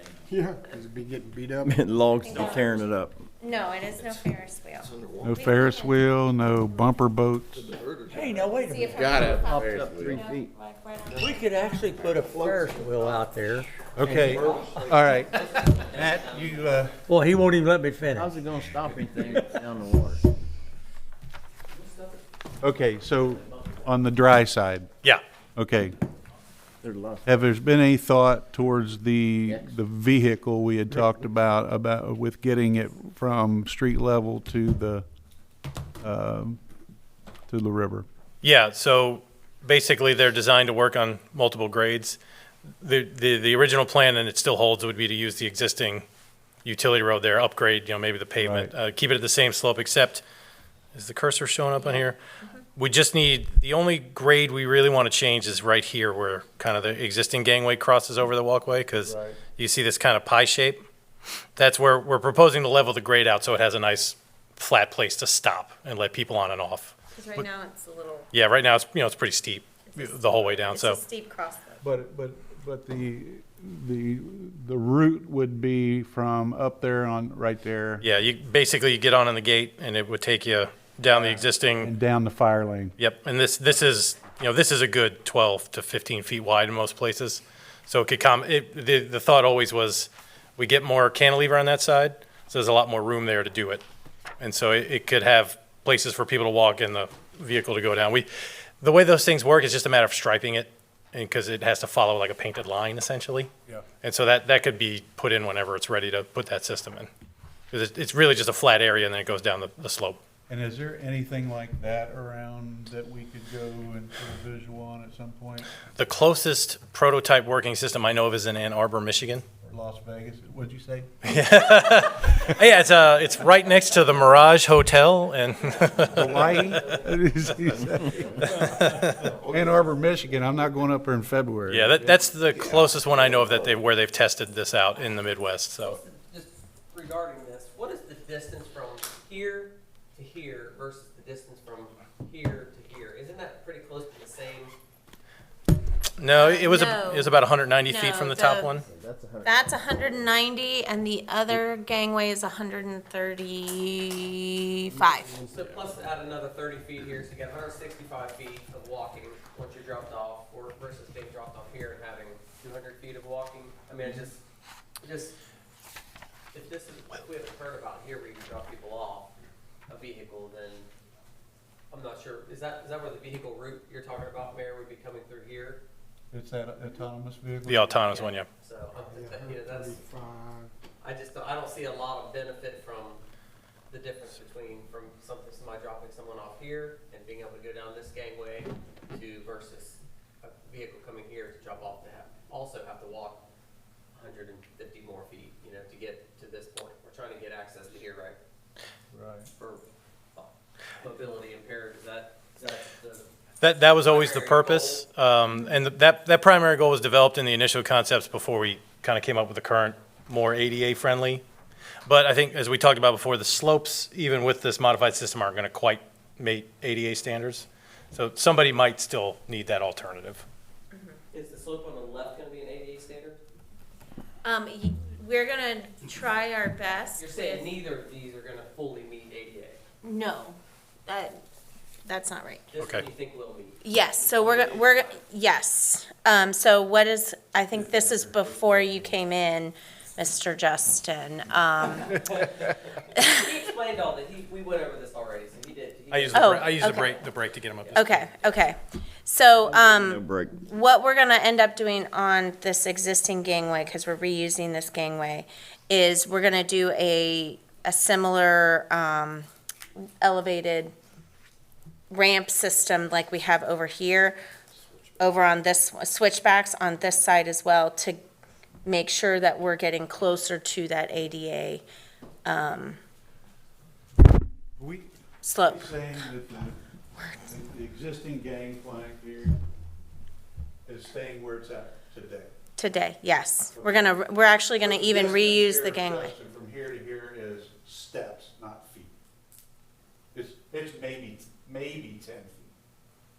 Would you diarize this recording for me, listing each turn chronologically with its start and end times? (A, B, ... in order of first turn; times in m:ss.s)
0:00.3-0:01.7 A
0:01.6-0:03.2 B
0:02.2-0:02.8 C
0:03.4-0:06.0 C
0:04.9-0:05.4 A
0:05.2-0:07.7 D
0:07.6-0:10.2 A
0:08.1-0:09.2 E
0:08.6-0:12.0 C
0:09.4-0:10.5 B
0:11.1-0:14.3 E
0:11.9-0:13.0 A
0:12.8-0:13.2 F
0:13.9-0:17.0 D
0:14.2-0:15.5 A
0:14.3-0:16.9 F
0:17.1-0:18.3 E
0:18.1-0:20.2 B
0:21.7-0:22.2 F
0:22.6-0:24.9 D
0:25.6-0:26.0 D
0:26.8-0:27.2 B
0:27.2-0:35.0 D
0:36.0-0:36.6 D
0:37.5-0:38.0 D
0:38.4-0:42.2 G
0:42.8-0:46.0 G
0:46.6-0:50.2 G
0:48.4-0:48.7 D
0:50.9-0:52.2 G
0:51.8-0:52.6 C
0:52.8-1:00.8 G
0:59.0-0:59.4 D
1:01.6-1:07.5 G
1:07.1-1:08.3 C
1:08.3-1:11.0 G
1:09.8-1:11.8 C
1:11.8-1:18.1 D
1:18.0-1:21.9 G
1:21.0-1:22.9 D
1:23.0-1:33.8 G
1:34.4-1:38.3 G
1:38.8-1:43.5 G
1:44.0-1:47.1 G
1:47.7-1:50.2 G
1:50.5-1:55.8 D
1:55.9-1:59.4 G
1:59.6-2:01.1 D
2:01.3-2:06.8 G
2:03.8-2:04.5 F
2:05.6-2:09.9 F
2:06.1-2:12.2 D
2:08.4-2:10.5 A
2:11.7-2:16.0 G
2:15.8-2:24.7 F
2:26.2-2:28.8 G
2:26.3-2:28.8 C
2:28.8-2:30.3 B
2:29.4-2:35.4 C
2:35.1-2:35.8 B
2:35.4-2:44.4 F
2:45.0-2:45.4 F
2:46.5-2:49.3 F
2:49.9-2:50.9 F
2:51.9-2:55.8 F
2:56.3-2:58.1 D
2:57.7-2:58.5 G
2:58.0-3:00.0 F
2:58.9-3:00.7 A
3:01.0-3:03.2 F
3:03.9-3:13.4 F
3:14.1-3:18.4 F
3:19.1-3:19.5 D
3:19.6-3:19.8 F
3:20.4-3:23.2 F
3:23.6-3:31.4 G
3:24.0-3:25.1 F
3:25.4-3:25.8 C
3:32.1-3:40.4 G
3:40.9-3:41.2 C
3:41.3-3:43.4 F
3:44.4-3:47.7 C
3:47.2-3:49.8 F
3:50.0-3:51.4 C
3:52.0-3:52.7 C
3:52.7-3:55.2 F
3:53.8-4:02.2 C
4:01.9-4:08.7 F
4:06.1-4:08.3 G
4:06.3-4:07.2 C
4:07.9-4:19.4 C
4:09.6-4:10.6 B
4:20.2-4:20.9 C
4:22.1-4:24.4 C
4:25.2-4:28.2 C
4:28.8-4:31.8 C
4:32.4-4:33.0 C
4:34.8-4:39.6 D
4:35.4-4:35.9 C
4:40.8-4:42.5 D
4:42.8-4:46.3 C
4:43.7-4:44.1 D
4:44.8-4:49.1 D
4:50.3-4:52.7 D